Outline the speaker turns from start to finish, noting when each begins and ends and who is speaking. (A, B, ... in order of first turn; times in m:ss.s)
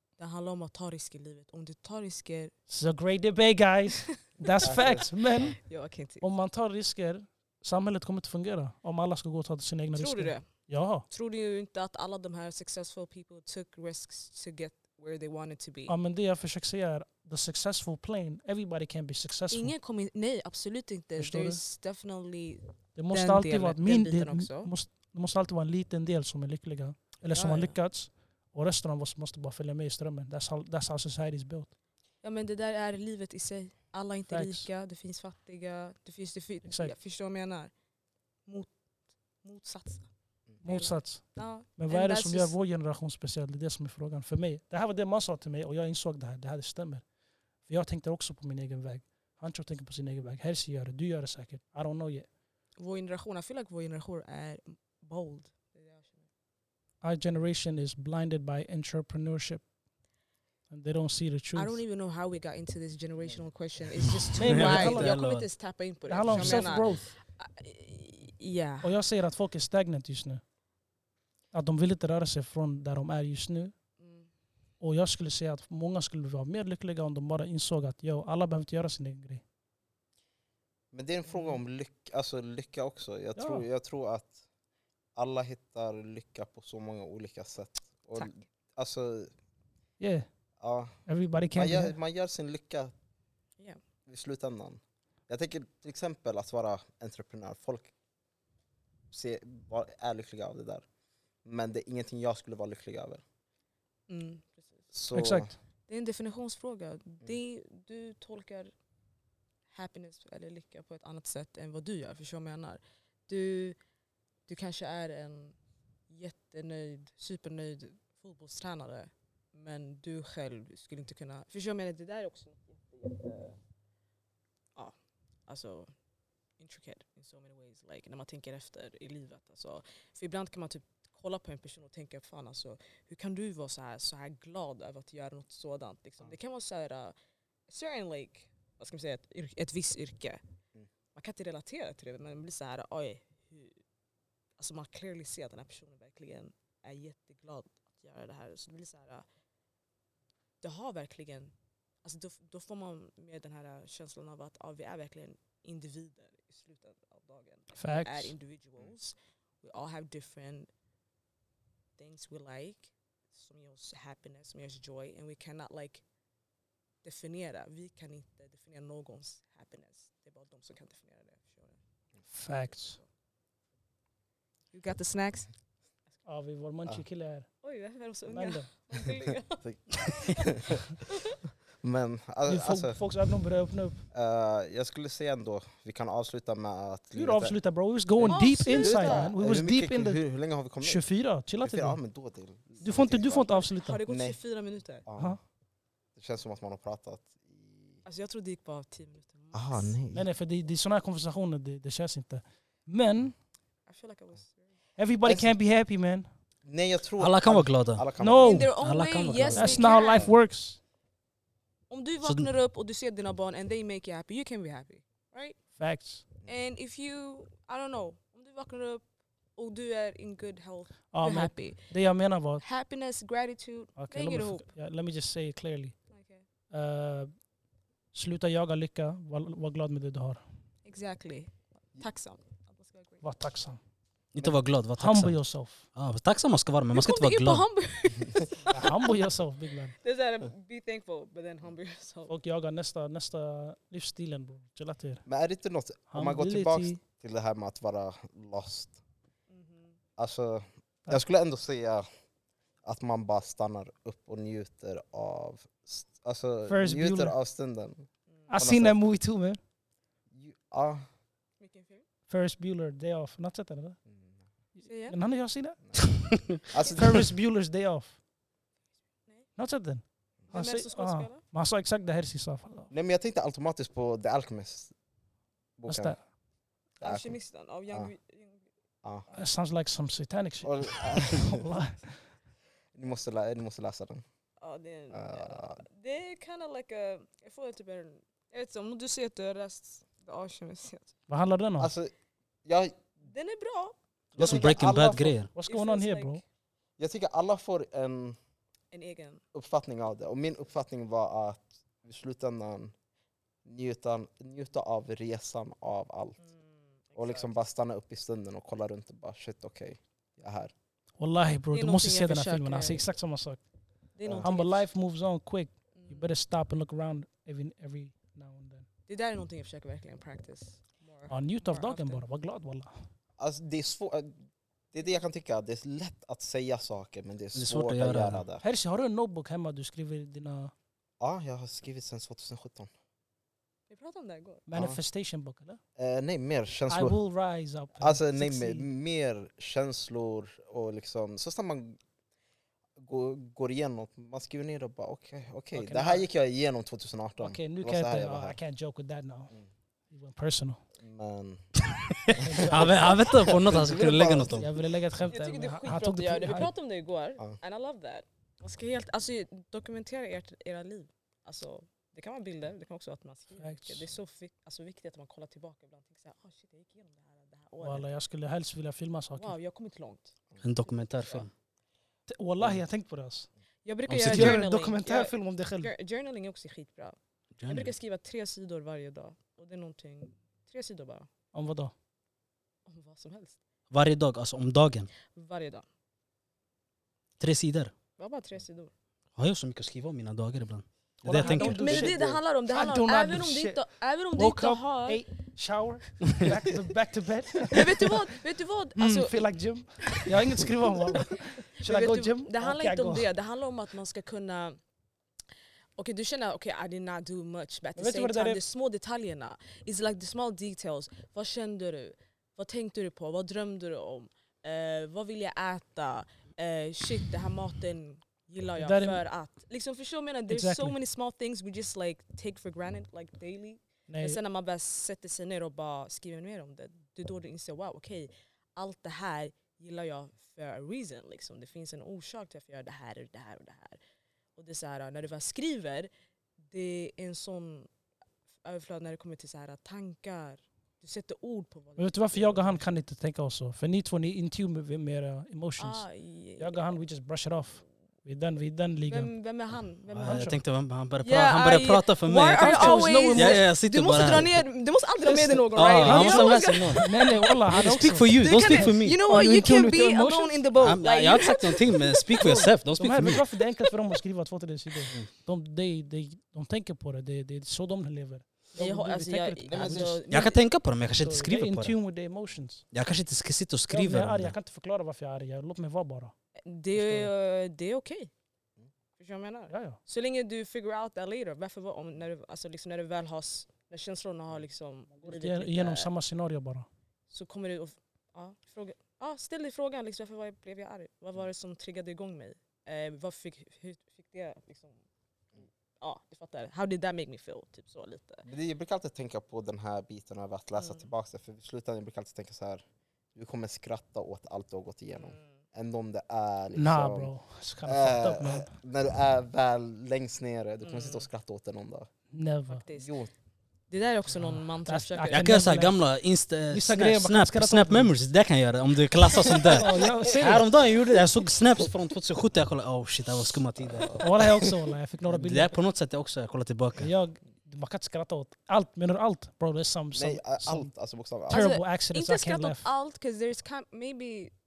0:00.2-0:02.5 A
0:02.7-0:05.6 B
0:03.9-0:06.2 A
0:04.6-0:05.1 C
0:06.2-0:11.0 B
0:09.9-0:15.9 A
0:15.9-0:19.7 B
0:19.5-0:24.7 A
0:21.2-0:21.6 B
0:22.9-0:31.7 B
0:27.3-0:27.8 A
0:32.2-0:37.7 A
0:34.3-0:34.7 B
0:36.6-0:36.9 B
0:38.4-0:38.7 A
0:39.4-0:40.1 A
0:40.6-0:42.5 A
0:40.6-0:47.0 B
0:47.6-0:52.3 B
0:52.8-0:56.2 A
0:57.0-0:59.6 B
1:00.7-1:01.8 B
1:01.5-1:08.9 A
1:04.2-1:05.4 D
1:04.4-1:05.2 B
1:06.1-1:07.1 B
1:06.3-1:06.6 D
1:08.8-1:10.4 B
1:11.5-1:13.7 B
1:14.0-1:14.3 A
1:14.8-1:19.4 B
1:20.9-1:24.4 C
1:21.3-1:21.6 A
1:23.4-1:23.6 B
1:25.2-1:29.3 C
1:30.0-1:30.3 B
1:30.6-1:31.0 C
1:31.0-1:31.9 B
1:31.5-1:32.9 C
1:34.1-1:37.9 C
1:39.1-1:40.8 C
1:41.4-1:43.2 C
1:44.1-1:44.8 A
1:44.9-1:45.5 C
1:45.1-1:45.6 B
1:45.9-1:48.7 A
1:49.7-1:53.8 A
1:54.5-1:55.5 A
1:56.1-2:03.6 A
2:05.5-2:05.9 A
2:06.6-2:17.1 A
2:17.7-2:20.4 A
2:21.1-2:23.8 A
2:24.6-2:29.2 A
2:30.6-2:31.5 A
2:32.0-2:40.7 A
2:37.8-2:38.3 B
2:42.0-2:46.0 A
2:47.0-2:51.8 A
2:52.3-2:53.0 B
2:52.7-2:53.0 A
2:54.7-2:55.5 A
2:56.2-2:57.5 B
2:57.6-3:01.4 A
2:58.3-2:58.7 B
2:59.6-3:00.8 C
3:01.8-3:03.0 C
3:02.4-3:04.0 B
3:04.1-3:07.6 C
3:07.1-3:10.2 B
3:08.2-3:11.0 C
3:08.3-3:09.3 A
3:10.8-3:12.0 B
3:11.6-3:13.5 C
3:12.8-3:14.0 B
3:13.7-3:15.0 A
3:14.1-3:14.4 C
3:15.0-3:15.4 C
3:16.2-3:18.0 C
3:18.0-3:19.9 A
3:19.5-3:20.2 C
3:20.1-3:23.3 B
3:23.9-3:24.7 A
3:25.0-3:26.3 B
3:25.2-3:25.5 C
3:26.6-3:28.7 C
3:27.2-3:28.0 D
3:28.2-3:28.7 B
3:28.4-3:30.3 A
3:28.8-3:29.8 D
3:29.5-3:30.8 B
3:31.9-3:35.6 A
3:32.2-3:32.5 D
3:35.8-3:36.2 B
3:36.4-3:39.0 A
3:39.5-3:41.9 A
3:41.1-3:42.6 B
3:42.6-3:44.6 A
3:44.0-3:46.0 B
3:46.1-3:46.4 A
3:46.7-3:47.3 B
3:48.1-3:50.4 B
3:50.8-3:53.2 A
3:53.2-3:53.8 B
3:54.3-3:55.4 D
3:55.0-3:55.8 B
3:55.9-3:57.6 D
3:56.9-3:59.2 A
3:58.7-3:59.9 B
4:00.0-4:02.3 A
4:02.3-4:05.2 B
4:05.2-4:09.0 C
4:06.1-4:07.0 B
4:09.5-4:10.0 A
4:10.2-4:12.0 C
4:12.8-4:19.0 C
4:16.7-4:17.3 B
4:18.5-4:19.6 B
4:20.3-4:21.0 C
4:21.6-4:22.0 A
4:22.3-4:24.0 B
4:24.1-4:24.3 C
4:24.8-4:26.0 B
4:24.8-4:25.2 A
4:26.7-4:27.3 C
4:26.9-4:28.2 B
4:29.6-4:32.9 B
4:30.5-4:31.4 A
4:32.9-4:34.9 C
4:35.8-4:36.2 C
4:35.9-4:36.2 B
4:37.0-4:38.6 A
4:37.0-4:37.4 C
4:39.3-4:42.2 B
4:40.6-4:41.6 C
4:42.9-4:44.2 C
4:44.6-4:51.1 A
4:45.1-4:45.8 C
4:51.3-4:51.9 B
4:51.8-4:52.1 C
4:52.6-4:53.0 C
4:53.2-4:54.8 A
4:54.4-4:55.4 C
4:54.4-4:55.5 D
4:55.5-4:56.4 B
4:55.6-4:56.4 A
4:57.0-4:58.4 C
4:58.9-4:59.4 A
4:59.5-5:02.9 C
5:03.6-5:06.4 C
5:06.4-5:07.6 A
5:07.2-5:10.7 C
5:11.2-5:13.6 B
5:11.7-5:13.0 A
5:14.1-5:14.9 A
5:14.4-5:18.8 B
5:15.9-5:16.3 A
5:19.1-5:22.2 A
5:21.3-5:22.9 B
5:23.4-5:24.4 C
5:24.9-5:28.6 C
5:27.5-5:28.4 D
5:28.6-5:30.7 B
5:31.2-5:32.9 C
5:33.9-5:34.6 A
5:34.7-5:35.8 B
5:34.7-5:35.0 C
5:36.0-5:37.2 C
5:36.9-5:38.9 B
5:38.0-5:42.0 C
5:43.0-5:48.6 C
5:45.7-5:46.2 B
5:47.4-5:49.5 B
5:50.1-5:50.8 B
5:51.0-5:51.6 C
5:52.0-5:54.7 D
5:52.3-5:54.7 C
5:52.4-5:53.1 B
5:54.5-5:56.7 B
5:55.3-6:08.0 A
6:03.6-6:04.0 B
6:07.8-6:09.6 B
6:09.4-6:10.4 A
6:10.6-6:11.5 D
6:12.3-6:13.5 B
6:13.8-6:21.3 A
6:14.1-6:14.6 D
6:14.2-6:15.9 B
6:17.6-6:17.9 D
6:21.5-6:21.9 B
6:22.8-6:23.6 A
6:23.9-6:25.1 D
6:25.3-6:25.8 A
6:27.4-6:27.9 D
6:28.2-6:28.9 A
6:29.4-6:32.2 D
6:31.2-6:33.8 B
6:31.4-6:35.2 A
6:32.1-6:32.4 C
6:34.3-6:38.3 B
6:37.7-6:39.4 A
6:39.0-6:43.3 B
6:41.8-6:44.8 A
6:46.0-7:14.0 A
6:48.0-6:48.6 B
6:58.8-6:59.2 B
7:00.5-7:01.0 B
7:04.1-7:04.4 B
7:14.6-7:16.1 A
7:16.7-7:17.9 A
7:18.6-7:22.8 A
7:22.0-7:26.0 B
7:25.8-7:27.0 A
7:26.6-7:29.3 B
7:29.1-7:30.5 A
7:30.1-7:34.6 D
7:30.2-7:30.6 B
7:31.2-7:37.6 A
7:32.6-7:33.6 B
7:35.4-7:37.0 D
7:36.0-7:40.6 B
7:37.7-7:39.4 D
7:38.4-7:42.7 A
7:40.8-7:43.4 D
7:42.4-7:50.2 B
7:48.7-7:50.6 A
7:49.6-7:50.2 C
7:50.3-7:52.0 D
7:51.2-7:52.8 B
7:52.9-7:54.5 D
7:53.9-7:56.3 B
7:56.6-7:58.3 A
7:56.9-7:57.3 B
7:59.2-8:06.1 A
7:59.7-8:00.0 B
8:05.1-8:06.9 B
8:07.3-8:15.0 A
8:16.0-8:18.4 A
8:18.4-8:22.8 C
8:20.8-8:21.1 A
8:23.3-8:27.3 C
8:25.1-8:25.4 A
8:26.7-8:28.7 B
8:27.8-8:32.1 C
8:30.8-8:31.2 A
8:32.3-8:32.8 B
8:32.7-8:33.1 A
8:33.0-8:33.3 C
8:33.9-8:35.5 A
8:34.3-8:36.0 B
8:35.3-8:44.2 D
8:36.7-8:38.1 B
8:39.7-8:40.7 B
8:44.2-8:45.7 B
8:45.3-8:47.1 D
8:47.0-8:50.9 B
8:50.1-8:51.7 C
8:51.5-8:52.9 B
8:51.5-8:54.5 A